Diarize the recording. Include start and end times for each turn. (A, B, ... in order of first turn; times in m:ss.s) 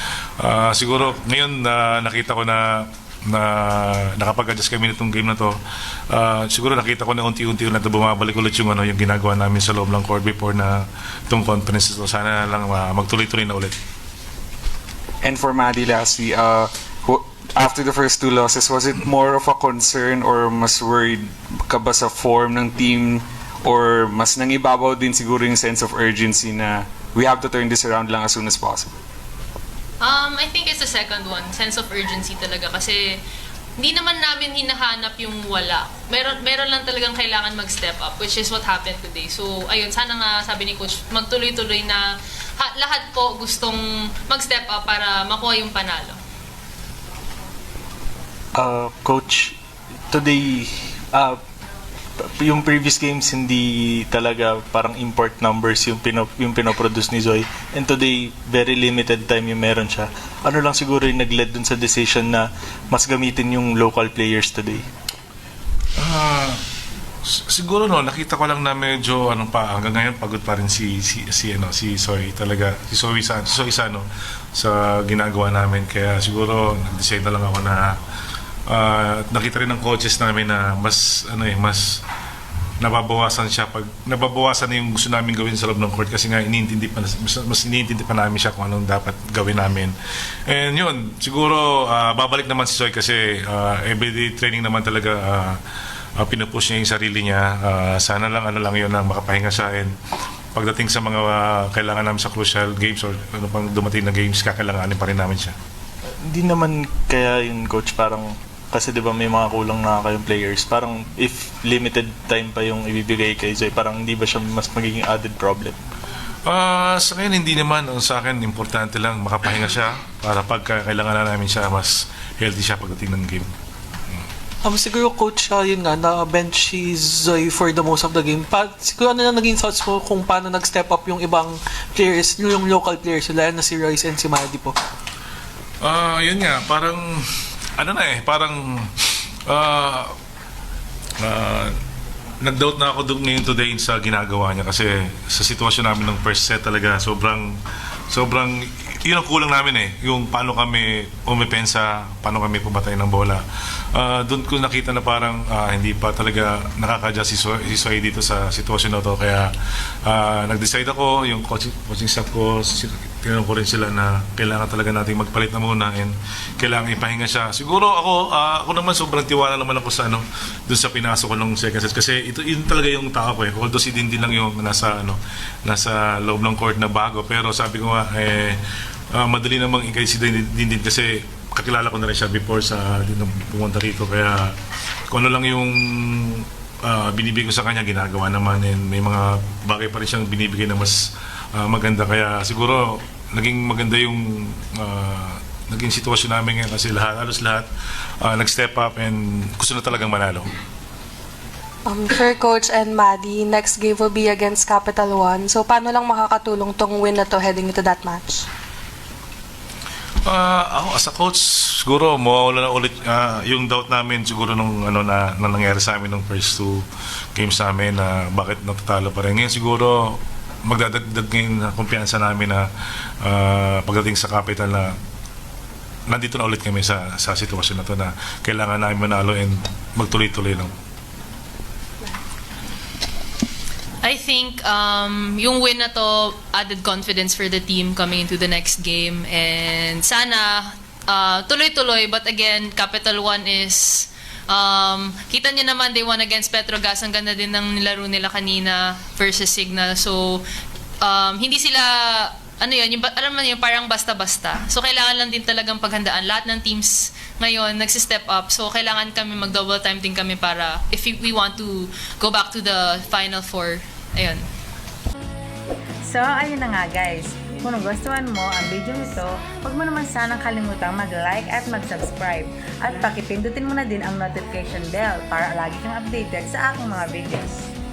0:00.4-0:05.5 A
0:06.1-0:13.7 A
0:15.2-0:28.9 B
0:30.0-0:33.0 C
0:33.8-0:42.0 C
0:42.6-0:46.2 C
0:48.6-0:49.5 D
0:50.1-0:51.4 D
0:52.2-1:04.8 D
1:06.0-1:06.6 A
1:07.2-1:17.9 A
1:18.7-1:22.0 A
1:22.8-1:29.9 A
1:30.4-1:35.6 A
1:36.2-1:39.9 A
1:40.5-1:45.5 A
1:46.2-1:55.8 D
1:56.4-2:03.5 A
2:04.6-2:14.8 E
2:15.8-2:17.2 A
2:17.8-2:18.9 A
2:19.5-2:20.1 A
2:21.2-2:21.7 A
2:22.4-2:27.5 A
2:28.1-2:33.4 A
2:33.9-2:39.5 A
2:40.0-2:58.6 A
2:59.1-3:04.5 A
3:05.1-3:11.0 A
3:11.5-3:17.7 A
3:18.2-3:20.5 A
3:21.8-3:28.4 F
3:30.2-3:42.6 A
3:43.2-3:44.9 A
3:46.1-3:50.7 A
3:54.0-4:10.4 C
4:11.0-4:24.4 C
4:26.1-4:37.6 G